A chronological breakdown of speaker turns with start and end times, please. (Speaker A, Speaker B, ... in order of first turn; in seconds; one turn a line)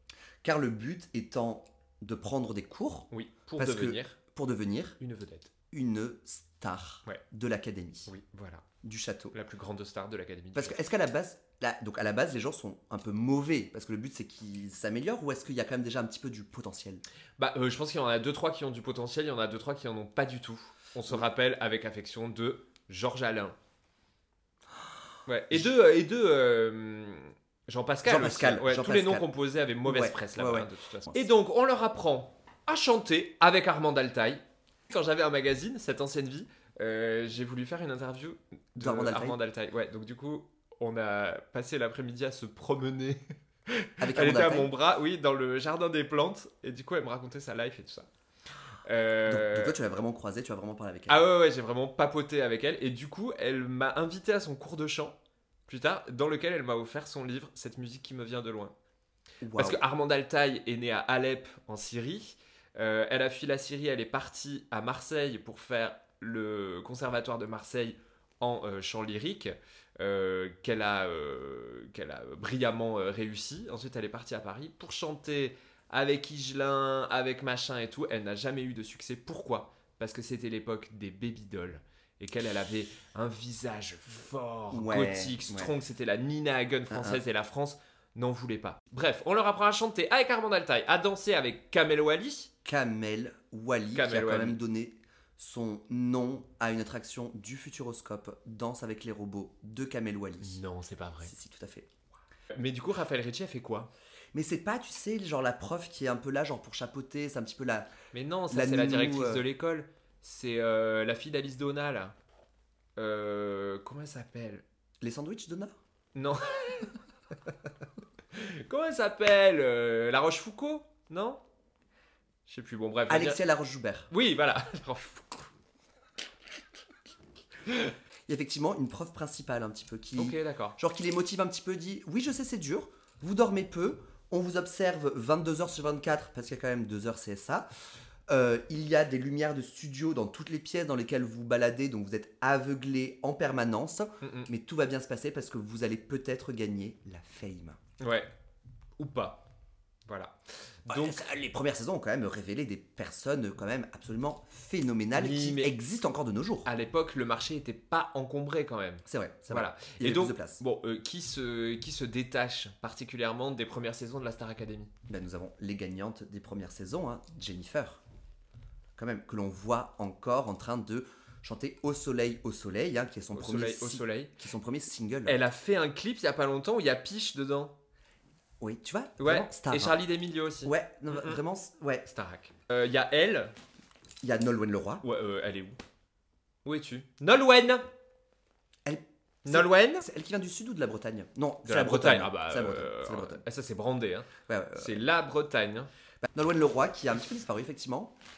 Speaker A: 0.4-5.0
Speaker B: 3.1-4.2
Speaker B: 5.0-5.5
Speaker A: 5.7-8.1
Speaker B: 8.1-8.6
Speaker A: 8.8-9.3
Speaker B: 9.3-10.8
Speaker A: 10.5-17.0
Speaker B: 17.4-23.5
Speaker B: 25.2-48.1
Speaker A: 28.0-29.2
Speaker A: 29.8-31.2
Speaker A: 38.8-39.4
Speaker A: 44.0-44.7
Speaker B: 48.9-49.8
Speaker A: 49.2-51.2
Speaker B: 51.1-55.2
Speaker B: 55.7-58.7
Speaker A: 59.4-59.8
Speaker B: 59.5-92.5
Speaker A: 84.7-85.7
Speaker A: 86.9-87.2
Speaker A: 92.6-100.6
Speaker B: 93.9-94.6
Speaker B: 100.4-101.3
Speaker A: 101.2-101.9
Speaker B: 102.5-103.9
Speaker A: 104.3-107.9
Speaker B: 108.1-112.1
Speaker A: 108.5-109.4
Speaker B: 113.0-114.6
Speaker A: 115.0-115.7
Speaker B: 116.1-117.0
Speaker B: 118.3-121.4
Speaker B: 122.5-123.4
Speaker A: 123.1-124.1
Speaker B: 124.1-125.5
Speaker B: 127.6-127.9
Speaker A: 128.3-137.7
Speaker B: 130.2-130.8
Speaker A: 138.3-147.8
Speaker B: 144.2-144.5
Speaker B: 148.0-148.3
Speaker B: 149.0-149.4
Speaker B: 150.1-150.3
Speaker B: 150.8-151.3
Speaker A: 150.9-156.7
Speaker B: 155.1-155.8
Speaker B: 156.7-164.9
Speaker A: 159.1-160.6
Speaker A: 165.1-168.0
Speaker A: 169.0-175.4
Speaker B: 173.3-174.4
Speaker B: 175.2-177.7
Speaker A: 178.6-180.0
Speaker B: 179.2-181.4
Speaker A: 180.6-182.1
Speaker B: 182.1-183.5
Speaker A: 184.2-185.0
Speaker B: 185.0-185.8
Speaker B: 186.6-187.8
Speaker A: 188.8-193.4
Speaker B: 189.4-190.1
Speaker B: 191.6-195.9
Speaker A: 194.5-195.0
Speaker A: 196.3-198.1